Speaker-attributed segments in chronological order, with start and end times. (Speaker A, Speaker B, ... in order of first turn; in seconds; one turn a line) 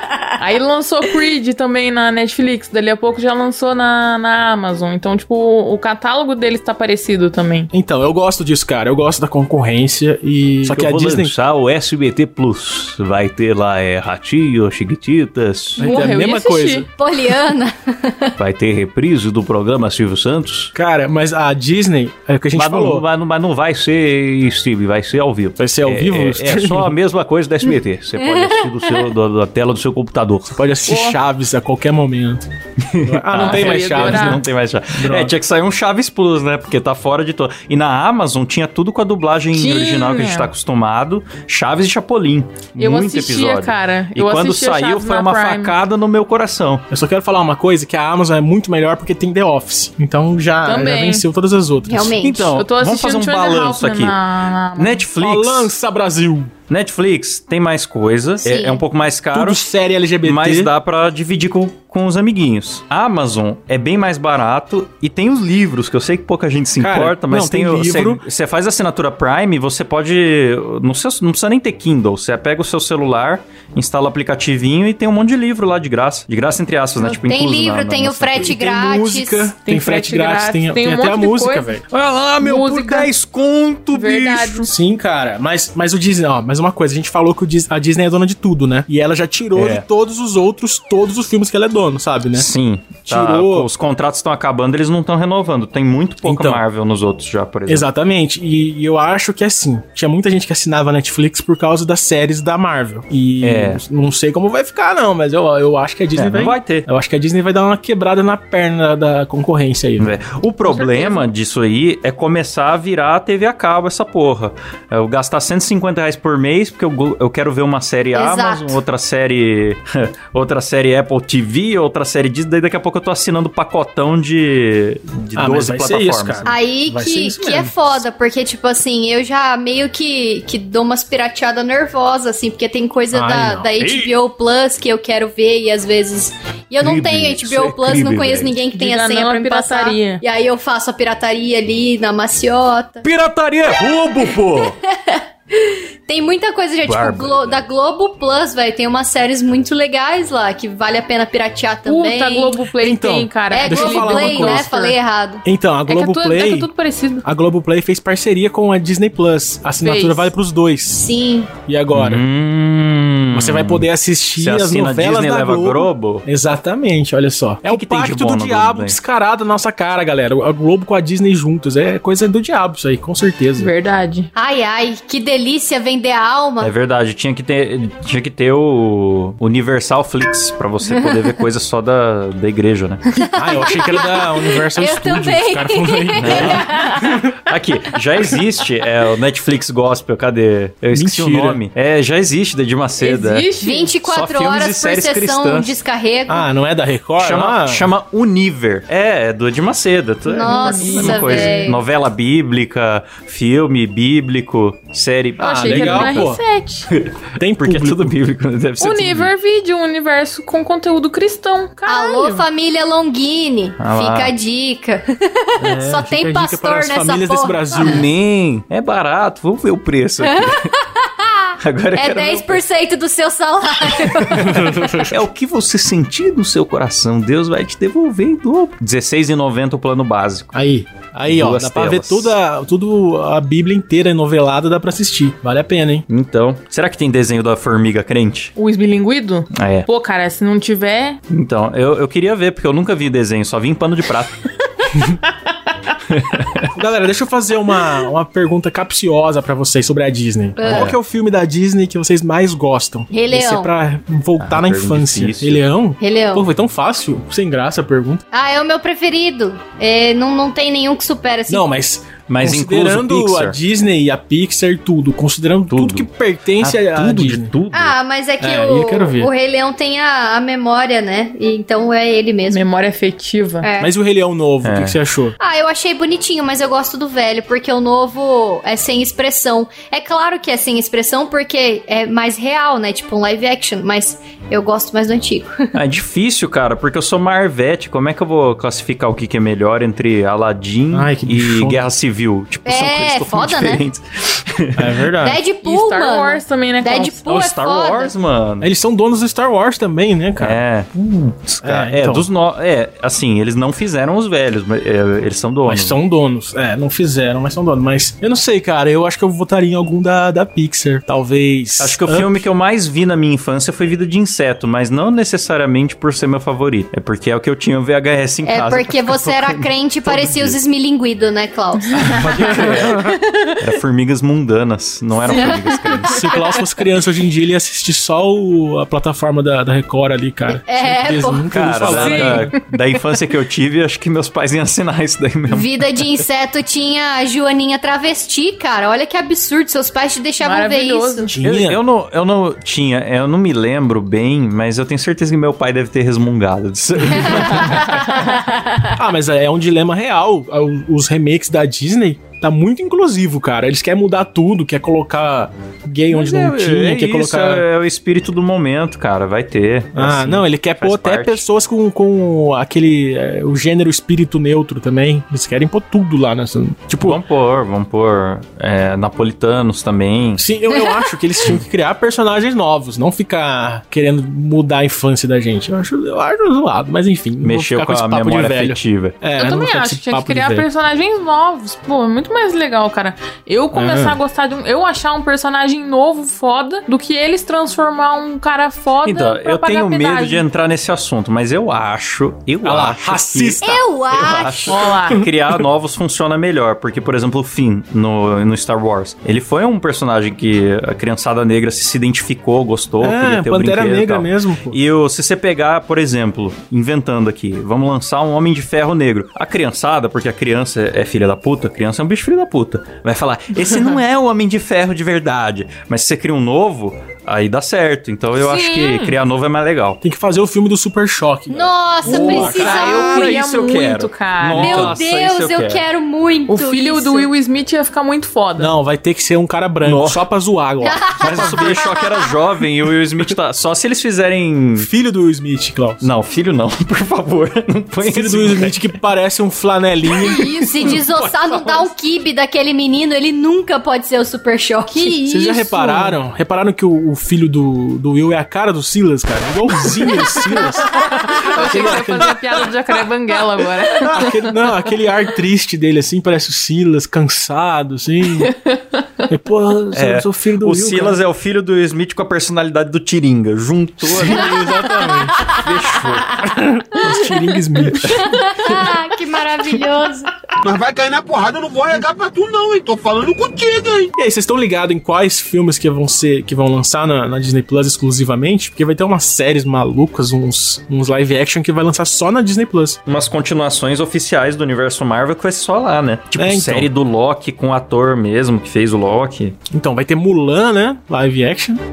Speaker A: 0.4-7.7
Speaker B: 7.7-11.3
Speaker C: 10.7-15.9
Speaker A: 15.8-16.9
Speaker B: 15.8-16.9
Speaker D: 17.0-18.4
Speaker C: 18.4-20.7
Speaker B: 20.7-23.1
Speaker C: 22.6-30.5
Speaker B: 25.6-26.9
Speaker D: 28.2-29.0
Speaker B: 30.5-32.5
Speaker A: 30.9-31.2
Speaker C: 32.8-46.9
Speaker B: 33.0-35.3
Speaker A: 33.4-34.4
Speaker A: 39.5-40.5
Speaker A: 42.8-45.8
Speaker B: 46.9-52.2
Speaker A: 50.6-51.2
Speaker D: 51.9-52.6
Speaker C: 52.2-54.2
Speaker A: 52.5-55.0
Speaker C: 54.8-55.7
Speaker B: 55.2-56.5
Speaker C: 56.7-59.6
Speaker D: 58.4-58.8
Speaker B: 59.3-60.7
Speaker C: 60.2-78.5
Speaker B: 66.8-68.2
Speaker D: 77.0-79.5
Speaker B: 78.4-81.8
Speaker A: 79.7-81.8
Speaker C: 81.9-84.7
Speaker A: 82.4-83.1
Speaker A: 83.9-84.7
Speaker B: 84.7-92.5
Speaker C: 89.5-89.8
Speaker C: 92.3-97.9
Speaker B: 93.1-93.7
Speaker B: 96.2-96.6
Speaker B: 97.7-110.1
Speaker C: 103.4-103.8
Speaker C: 106.2-106.9
Speaker C: 110.0-126.5
Speaker D: 110.7-111.3
Speaker D: 118.1-118.8
Speaker B: 125.4-128.0
Speaker D: 126.5-143.1
Speaker B: 133.1-133.7
Speaker C: 133.6-134.2
Speaker C: 136.8-138.5
Speaker A: 138.8-140.2
Speaker C: 143.0-144.8
Speaker D: 144.5-152.6
Speaker C: 146.8-147.6
Speaker A: 151.9-154.9
Speaker B: 152.8-154.7
Speaker D: 153.5-155.4
Speaker B: 155.4-156.7
Speaker A: 155.9-157.2
Speaker B: 157.2-161.1
Speaker A: 159.8-160.3
Speaker D: 161.0-161.5
Speaker B: 161.7-162.2
Speaker C: 161.9-163.9
Speaker B: 163.3-173.7
Speaker C: 164.4-166.2
Speaker C: 167.7-169.0
Speaker A: 173.6-174.3
Speaker D: 174.3-176.7
Speaker C: 176.6-183.1
Speaker D: 183.2-187.2
Speaker B: 183.3-186.7
Speaker C: 186.2-193.5
Speaker B: 190.9-191.6
Speaker A: 193.0-193.9
Speaker D: 193.6-196.5
Speaker C: 194.0-195.8
Speaker B: 196.3-197.9
Speaker C: 197.2-206.3
Speaker D: 200.3-201.8
Speaker A: 200.4-201.8
Speaker B: 205.4-206.4
Speaker A: 205.4-206.9
Speaker C: 206.9-209.3
Speaker B: 207.4-208.2
Speaker A: 208.8-212.4
Speaker D: 211.9-218.0
Speaker C: 213.8-214.3
Speaker B: 215.6-218.1
Speaker C: 217.8-220.7
Speaker D: 220.5-225.1
Speaker C: 221.6-222.6
Speaker C: 224.1-230.5
Speaker B: 224.4-225.1
Speaker B: 230.5-236.1
Speaker C: 231.3-232.3
Speaker C: 236.1-238.5
Speaker A: 238.6-241.2
Speaker C: 239.5-239.9
Speaker C: 241.3-244.4
Speaker C: 246.1-246.7
Speaker B: 246.8-258.2
Speaker D: 250.6-250.9
Speaker C: 250.7-251.0
Speaker D: 253.1-253.7
Speaker C: 254.4-255.6
Speaker D: 256.0-256.5
Speaker D: 258.3-261.7
Speaker B: 261.5-267.6
Speaker C: 262.3-263.6
Speaker C: 265.7-266.1
Speaker C: 266.6-267.9
Speaker D: 267.7-272.6
Speaker B: 268.4-269.3
Speaker A: 272.5-273.7
Speaker D: 273.6-273.9
Speaker B: 273.8-275.4
Speaker C: 274.6-275.0
Speaker D: 275.4-285.7
Speaker C: 285.7-295.0
Speaker B: 290.9-291.8
Speaker D: 292.7-293.9
Speaker B: 294.8-295.4
Speaker D: 295.2-298.1
Speaker A: 295.6-297.2
Speaker C: 297.3-298.7
Speaker B: 298.6-300.6
Speaker C: 300.4-306.0
Speaker B: 301.6-302.3
Speaker B: 305.7-312.4
Speaker C: 311.8-320.6
Speaker D: 318.4-322.2
Speaker C: 321.9-326.4
Speaker D: 325.2-326.6
Speaker B: 326.1-332.6
Speaker D: 330.5-331.5
Speaker C: 331.5-335.7
Speaker A: 331.9-332.5
Speaker D: 335.5-341.3
Speaker A: 340.4-341.4
Speaker B: 341.3-341.8
Speaker C: 341.4-348.2
Speaker B: 347.1-347.9
Speaker D: 347.6-348.9
Speaker B: 348.9-357.7
Speaker C: 356.1-361.4
Speaker B: 359.9-367.2
Speaker C: 367.0-370.4
Speaker B: 370.4-380.7
Speaker C: 377.4-379.2
Speaker A: 379.4-390.4
Speaker B: 383.7-384.2
Speaker C: 389.0-420.0
Speaker B: 392.6-393.8
Speaker D: 393.6-394.8
Speaker A: 394.7-395.2
Speaker B: 403.0-404.8
Speaker A: 418.4-419.2
Speaker B: 420.0-422.9
Speaker D: 421.5-423.4
Speaker A: 422.1-424.9
Speaker C: 422.1-425.8
Speaker D: 424.5-427.3
Speaker A: 426.5-428.7
Speaker B: 428.6-431.8
Speaker C: 429.8-430.2
Speaker D: 430.8-432.3
Speaker C: 431.2-434.9
Speaker B: 434.8-436.1
Speaker C: 436.0-438.8
Speaker B: 438.0-441.0
Speaker D: 440.2-445.2
Speaker A: 440.2-441.0
Speaker C: 441.0-441.5
Speaker A: 444.9-446.2
Speaker B: 445.3-452.6
Speaker A: 450.2-454.8
Speaker B: 453.9-458.5
Speaker A: 458.4-459.0
Speaker B: 459.3-461.2
Speaker C: 459.9-466.5
Speaker B: 464.0-465.4
Speaker B: 466.4-468.8
Speaker D: 468.1-470.3
Speaker E: 470.6-474.1
Speaker B: 474.2-483.0
Speaker C: 483.1-489.6
Speaker B: 486.4-486.9
Speaker B: 489.7-491.8